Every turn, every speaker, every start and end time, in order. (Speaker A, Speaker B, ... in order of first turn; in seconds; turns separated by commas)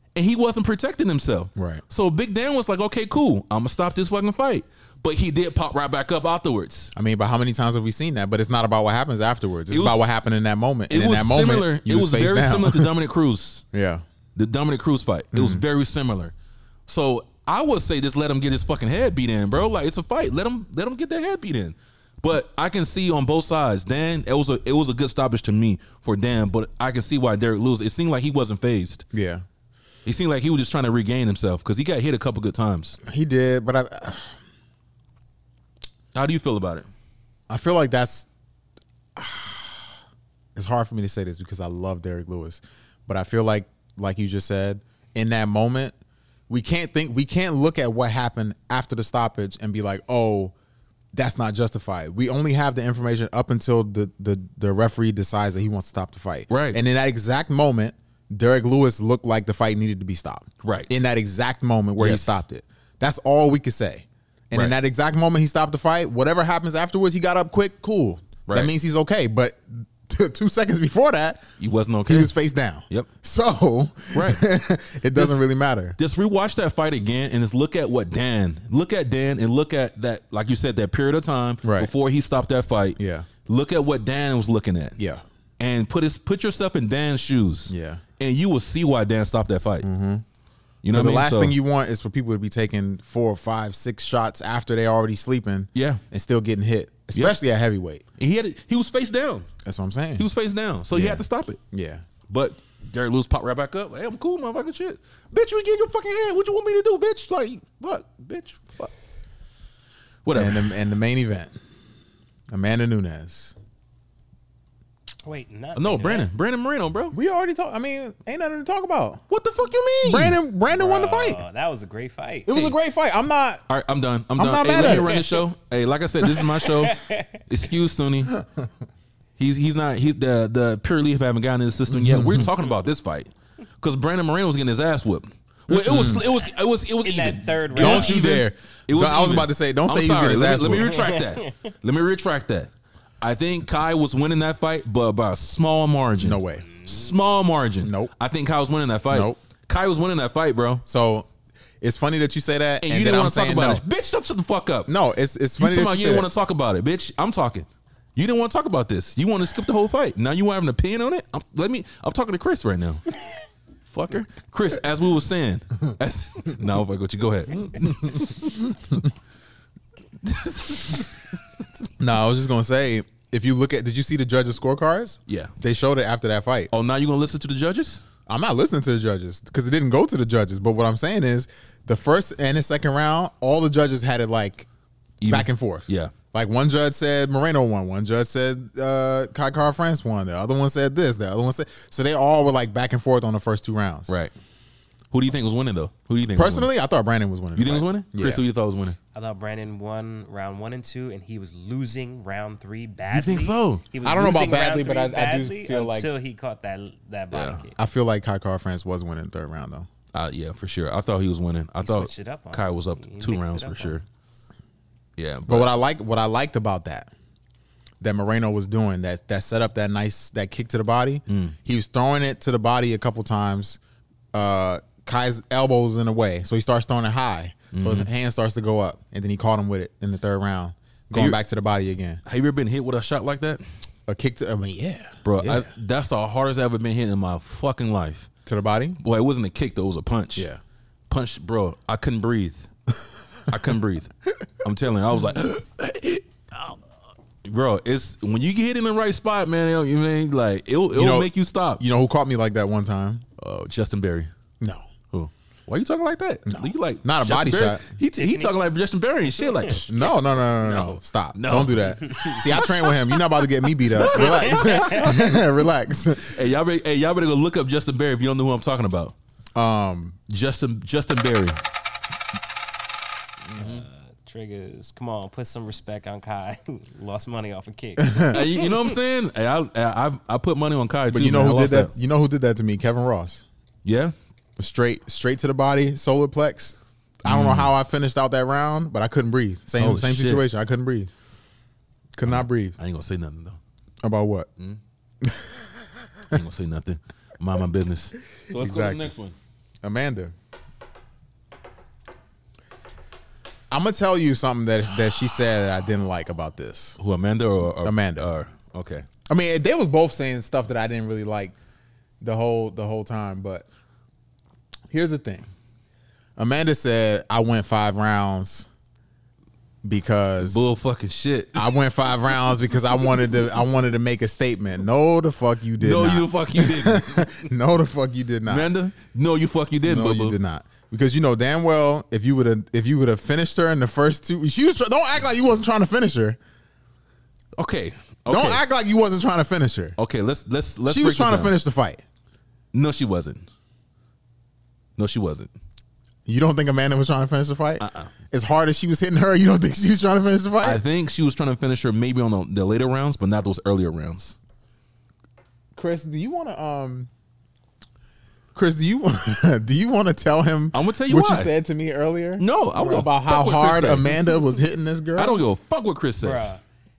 Speaker A: 0.1-6.9, Speaker B: 1.6-1.8, Speaker B: 6.9-12.9, Speaker A: 9.7-10.1, Speaker A: 10.9-13.6, Speaker B: 13.7-14.0, Speaker A: 14.3-16.3, Speaker B: 15.3-15.6, Speaker A: 16.9-29.1, Speaker B: 29.1-29.4, Speaker A: 30.0-33.0, Speaker B: 33.0-34.4, Speaker A: 36.1-36.9, Speaker B: 37.5-38.3, Speaker B: 39.1-39.9, Speaker B: 40.5-45.9, Speaker B: 46.5-50.5, Speaker B: 51.1-71.4, Speaker A: 56.5-56.8, Speaker A: 60.6-61.0, Speaker A: 62.0-62.4, Speaker A: 68.5-68.7, Speaker A: 71.6-72.3, Speaker B: 72.0-76.0, Speaker A: 74.1-74.4, Speaker A: 75.1-75.4, Speaker A: 76.0-85.0, Speaker B: 81.6-81.9, Speaker B: 83.0-83.3, Speaker B: 85.0-85.2, Speaker A: 85.6-89.9, Speaker B: 87.7-88.0, Speaker B: 89.8-90.2, Speaker A: 90.8-91.5, Speaker B: 90.9-98.0, Speaker A: 95.7-96.0, Speaker A: 98.2-99.5, Speaker B: 99.6-100.3, Speaker A: 100.2-101.6, Speaker B: 100.9-102.0, Speaker A: 102.3-108.9, Speaker A: 110.2-110.7, Speaker B: 110.3-111.5, Speaker B: 112.5-113.5, Speaker C: 115.2-116.3, Speaker A: 115.8-117.2, Speaker B: 117.1-119.2, Speaker A: 119.3-120.4, Speaker B: 120.0-121.4, Speaker C: 120.7-122.7, Speaker B: 122.5-123.6, Speaker A: 123.7-128.4, Speaker B: 124.4-125.2, Speaker C: 124.7-125.4, Speaker C: 126.4-127.4, Speaker A: 129.4-150.8, Speaker B: 131.9-132.5, Speaker B: 135.7-136.2, Speaker C: 137.0-138.2, Speaker B: 137.8-141.0, Speaker C: 140.7-141.5, Speaker B: 146.2-146.7, Speaker B: 147.8-148.1, Speaker B: 149.1-149.4, Speaker B: 150.8-151.3, Speaker B: 151.8-153.8, Speaker A: 152.8-154.9, Speaker B: 154.9-156.3, Speaker A: 155.6-163.1, Speaker A: 163.9-168.8, Speaker A: 170.2-171.1, Speaker B: 172.0-176.7, Speaker A: 175.3-175.5, Speaker A: 176.7-178.0, Speaker B: 178.3-184.7, Speaker A: 185.2-186.1, Speaker B: 185.3-194.1, Speaker A: 194.1-194.3, Speaker A: 195.1-196.7, Speaker B: 196.3-198.4, Speaker A: 197.6-199.0, Speaker C: 199.1-207.8, Speaker A: 203.1-203.8, Speaker B: 204.0-206.1, Speaker A: 207.3-207.6, Speaker B: 207.8-209.9, Speaker A: 210.1-214.0, Speaker C: 211.8-214.0, Speaker A: 215.2-215.7, Speaker B: 215.5-217.1, Speaker B: 218.0-223.8, Speaker A: 221.3-221.5, Speaker B: 224.3-232.2, Speaker A: 227.7-228.1, Speaker A: 231.1-231.4, Speaker A: 232.2-233.6, Speaker B: 234.1-235.7, Speaker A: 235.2-238.3, Speaker B: 238.4-239.0, Speaker A: 239.0-240.5, Speaker A: 241.1-242.7, Speaker A: 243.5-246.7, Speaker A: 247.4-251.8, Speaker B: 250.9-253.2, Speaker A: 253.4-254.3, Speaker B: 254.6-254.9, Speaker A: 255.1-260.0, Speaker B: 256.4-257.8, Speaker C: 258.2-258.5, Speaker C: 259.4-259.8, Speaker B: 259.9-266.4, Speaker A: 260.6-263.1, Speaker A: 263.9-265.4, Speaker C: 264.0-265.1, Speaker A: 266.2-269.1, Speaker B: 269.5-270.2, Speaker A: 270.3-271.6, Speaker A: 273.5-273.8, Speaker C: 273.6-278.9, Speaker B: 278.0-278.4, Speaker A: 278.3-281.9, Speaker B: 281.1-283.4, Speaker A: 283.8-284.1, Speaker B: 284.6-291.1, Speaker A: 287.2-287.7, Speaker A: 289.8-290.4, Speaker B: 292.1-292.8, Speaker A: 292.2-293.6, Speaker B: 294.0-294.5, Speaker B: 295.2-295.7, Speaker A: 296.3-299.3, Speaker B: 298.5-299.1, Speaker B: 299.8-300.3, Speaker B: 303.7-307.0, Speaker A: 307.0-309.1, Speaker B: 307.8-308.3, Speaker B: 309.3-311.5, Speaker B: 312.2-313.6, Speaker B: 314.9-315.5, Speaker B: 316.4-318.7, Speaker B: 319.8-320.7, Speaker A: 320.4-321.7, Speaker B: 321.5-328.7, Speaker A: 325.8-327.4, Speaker A: 328.5-330.4, Speaker B: 329.8-336.4, Speaker A: 337.6-338.6, Speaker B: 338.3-340.0, Speaker A: 340.0-341.5, Speaker B: 340.9-342.0, Speaker A: 342.7-343.4, Speaker A: 345.0-345.5, Speaker B: 346.2-350.8, Speaker A: 347.8-348.1, Speaker A: 350.6-354.4, Speaker B: 355.7-357.1, Speaker B: 358.5-365.4, Speaker A: 360.7-361.5, Speaker A: 362.4-364.3, Speaker A: 365.1-366.6, Speaker C: 366.2-366.6